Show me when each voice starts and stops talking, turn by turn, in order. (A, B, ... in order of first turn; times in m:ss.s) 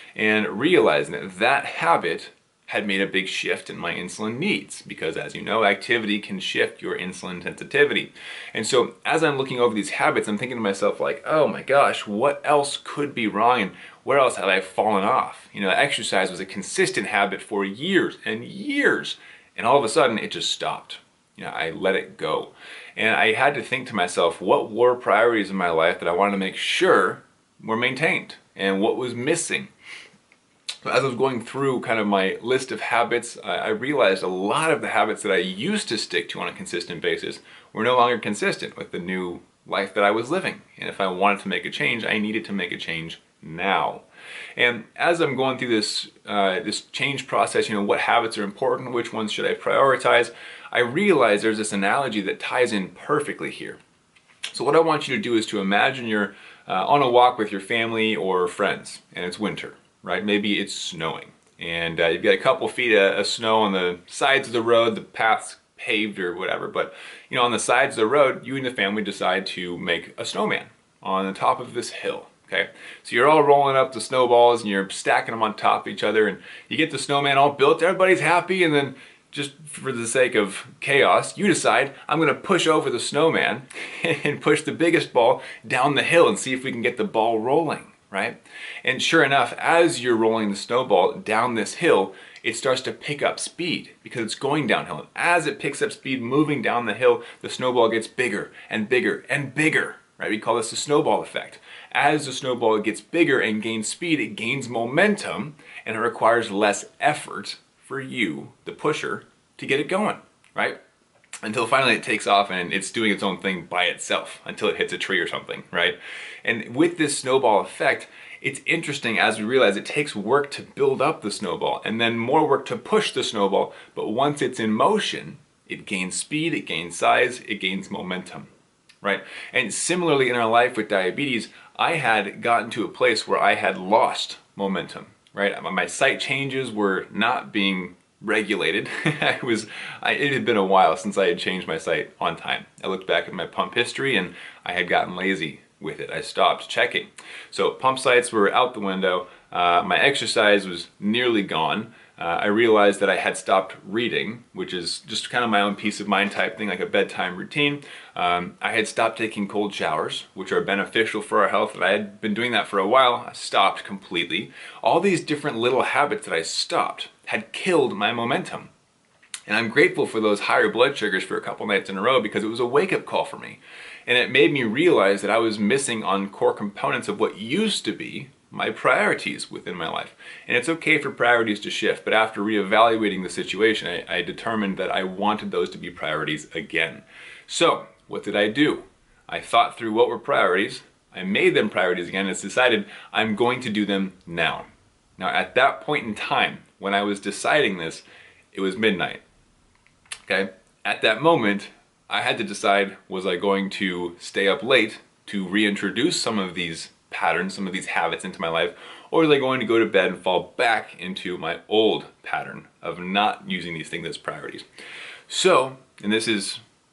0:00.2-0:29.7 A
0:30.8-0:44.0 A
0:44.6-0:53.8 A
0:54.5-1:50.8 A
1:51.4-2:08.5 A
2:09.0-2:48.7 A
2:49.5-3:19.2 A
3:20.3-3:34.6 A
3:35.3-3:36.6 A